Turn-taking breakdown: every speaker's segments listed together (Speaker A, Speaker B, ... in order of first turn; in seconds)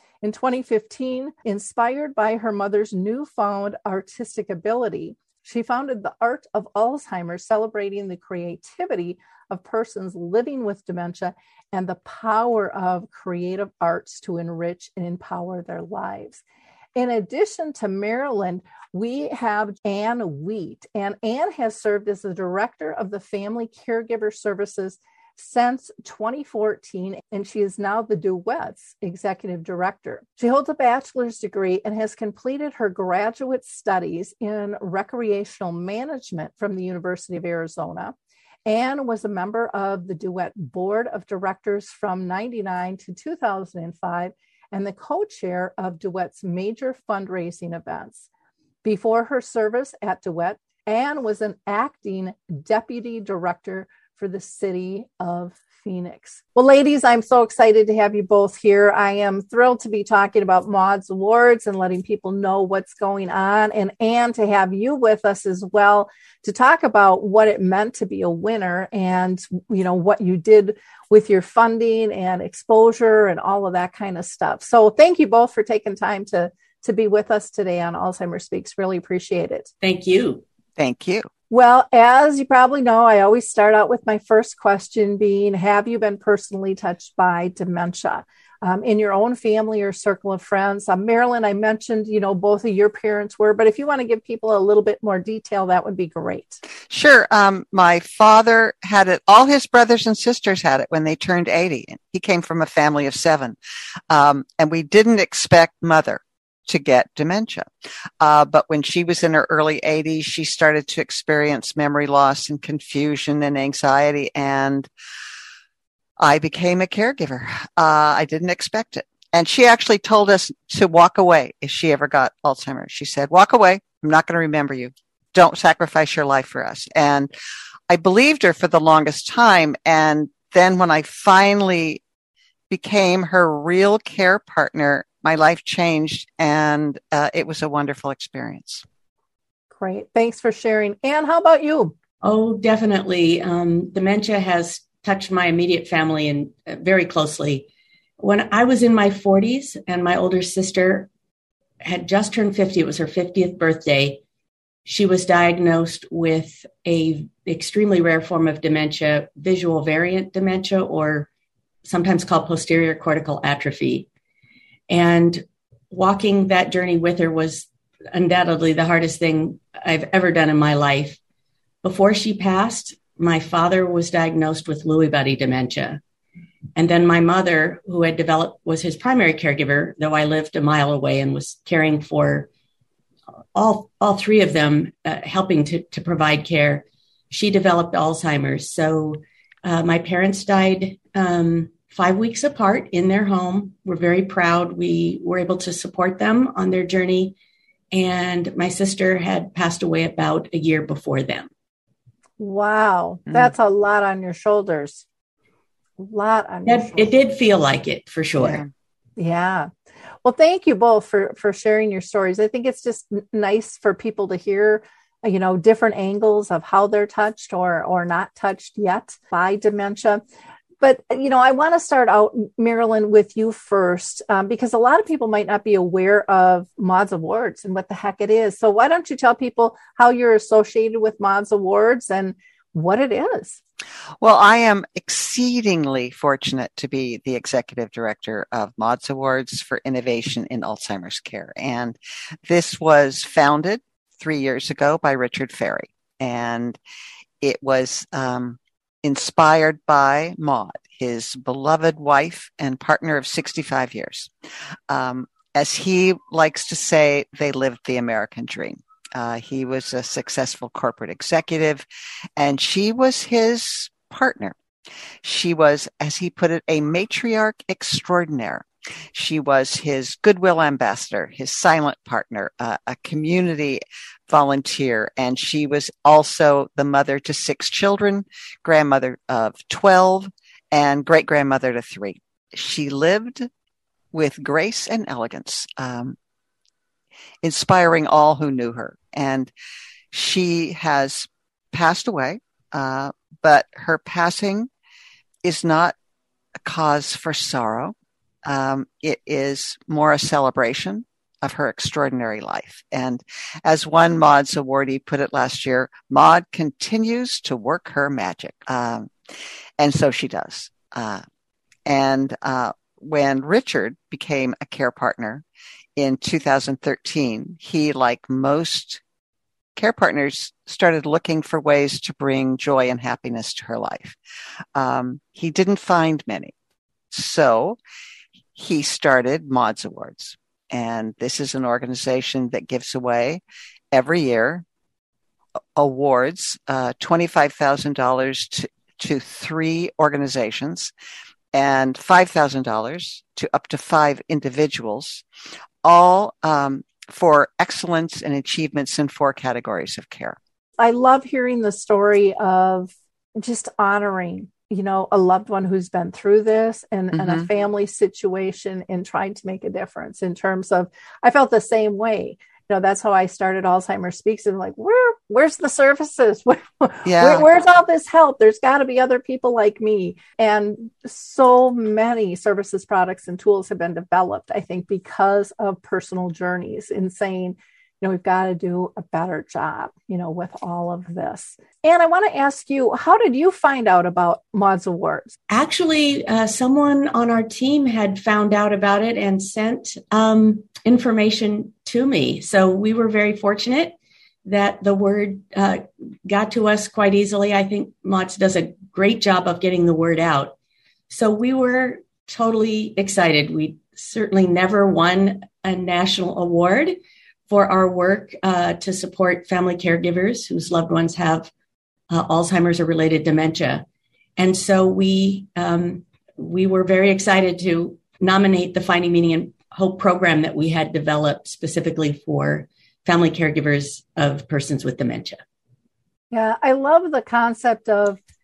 Speaker A: 0.2-16.4, 16.9-38.1, 38.6-48.3, 48.8-79.7, 81.5-96.6, 139.7-141.9, 202.4-205.0, 206.0-207.1, 209.2-209.7, 210.2-220.2, 220.8-233.6, 350.8-385.3, 426.3-428.2
Speaker B: 79.8-80.4, 142.2-147.7, 148.2-151.1, 151.8-154.2, 154.8-161.3, 161.8-164.1, 164.9-171.2, 171.8-176.0, 176.8-182.5, 183.5-197.3, 197.9-201.5, 206.7-208.6, 385.5-400.5, 401.1-406.9, 407.5-411.5, 412.1-413.8, 414.4-425.4
Speaker C: 80.8-81.3, 96.9-103.6, 104.1-107.7, 108.2-114.9, 116.2-127.3, 127.9-132.0, 132.7-138.8, 208.4-208.7, 234.2-246.8, 247.4-254.3, 254.9-261.8, 262.4-264.5, 265.2-283.5, 284.1-286.2, 287.4-289.5, 290.1-294.7, 295.4-295.9, 296.6-297.9, 298.4-309.1, 309.8-311.2, 311.9-315.4, 316.0-319.0, 319.8-324.2, 324.7-326.5, 327.1-327.8, 328.5-333.4, 333.9-334.6, 335.8-340.9, 341.5-345.2, 345.8-350.4, 357.1-357.5, 367.0-367.4